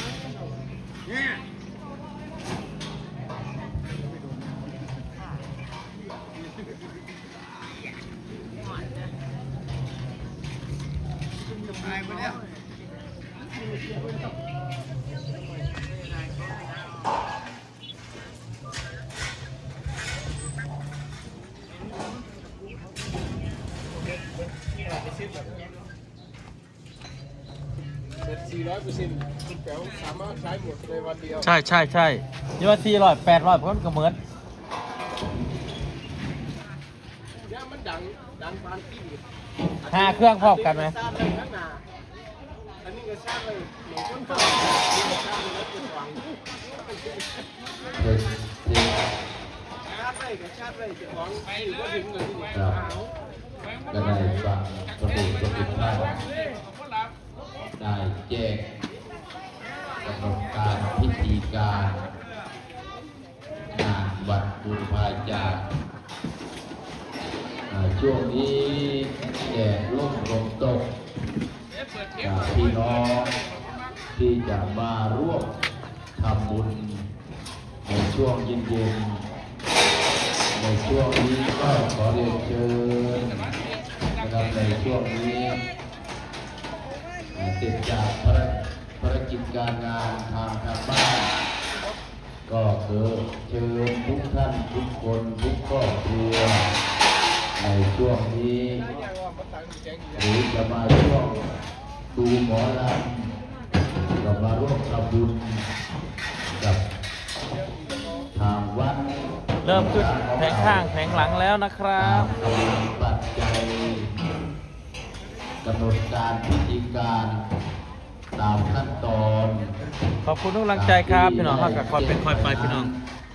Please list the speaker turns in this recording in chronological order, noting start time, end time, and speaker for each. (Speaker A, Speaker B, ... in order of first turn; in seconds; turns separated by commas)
Speaker A: 24.8-25.4, Speaker A: 28.2-31.5, Speaker B: 31.4-34.2, Speaker A: 37.5-39.2, Speaker B: 39.9-41.0, Speaker A: 39.9-41.9, Speaker A: 42.8-46.2, Speaker C: 48.0-49.0, Speaker A: 50.0-53.0, Speaker C: 52.5-53.0, Speaker C: 53.9-56.2, Speaker C: 57.8-58.6, Speaker C: 60.0-62.1, Speaker C: 63.7-65.7, Speaker C: 67.7-70.9, Speaker C: 72.2-73.4, Speaker C: 74.2-75.6, Speaker C: 76.2-77.1, Speaker C: 77.8-79.2, Speaker C: 80.5-83.5, Speaker C: 84.2-85.6, Speaker C: 87.3-91.4, Speaker C: 92.5-96.7, Speaker C: 97.6-98.9, Speaker A: 98.9-100.3, Speaker C: 100.1-101.5, Speaker C: 102.1-103.3, Speaker C: 104.0-105.7, Speaker C: 106.4-106.8, Speaker A: 107.5-108.3, Speaker C: 108.3-110.9, Speaker B: 109.6-112.3, Speaker C: 112.0-114.1, Speaker C: 115.6-117.5, Speaker C: 118.3-119.7, Speaker B: 120.2-122.9, Speaker C: 120.7-123.0